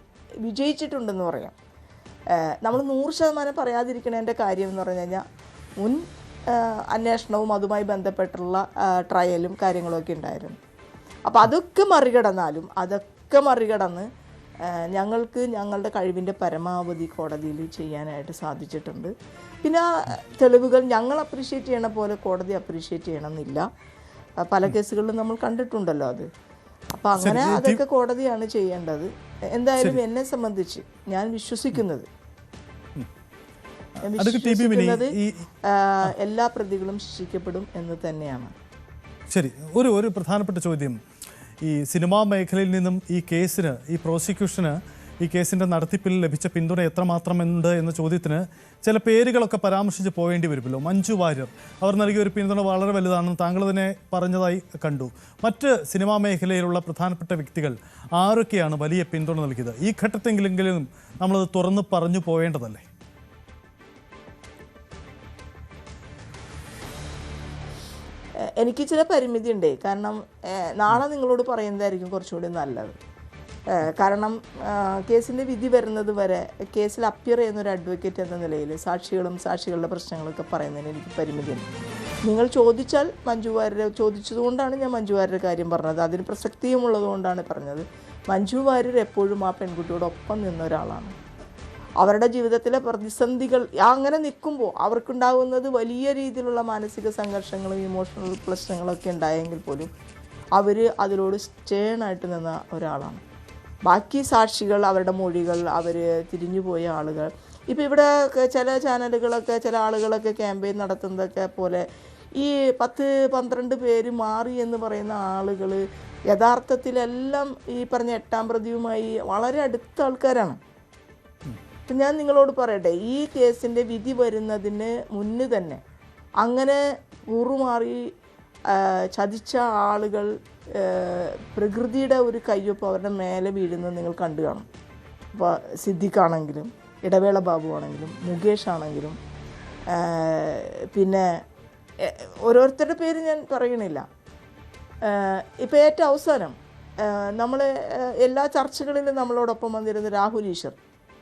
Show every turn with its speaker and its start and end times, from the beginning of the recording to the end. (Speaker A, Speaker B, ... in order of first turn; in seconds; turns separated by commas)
Speaker A: 0.4-1.5, Speaker A: 2.4-5.2, Speaker A: 5.8-10.6, Speaker A: 11.3-14.0, Speaker A: 14.6-19.1, Speaker A: 19.6-23.6, Speaker A: 24.4-26.3, Speaker A: 26.9-32.1, Speaker B: 27.2-27.8, Speaker A: 34.0-35.1, Speaker B: 34.2-35.5, Speaker A: 35.7-38.5, Speaker B: 39.3-41.0, Speaker B: 41.6-62.8, Speaker A: 68.6-73.0, Speaker A: 73.7-81.7, Speaker A: 82.3-91.1, Speaker A: 92.0-99.9, Speaker A: 100.5-103.2, Speaker A: 103.9-111.8, Speaker A: 112.4-120.6, Speaker A: 121.9-125.8, Speaker A: 126.4-126.8, Speaker A: 127.3-128.0, Speaker A: 128.7-134.7, Speaker A: 135.3-139.2, Speaker A: 139.9-141.3, Speaker A: 142.0-144.0, Speaker A: 145.0-150.8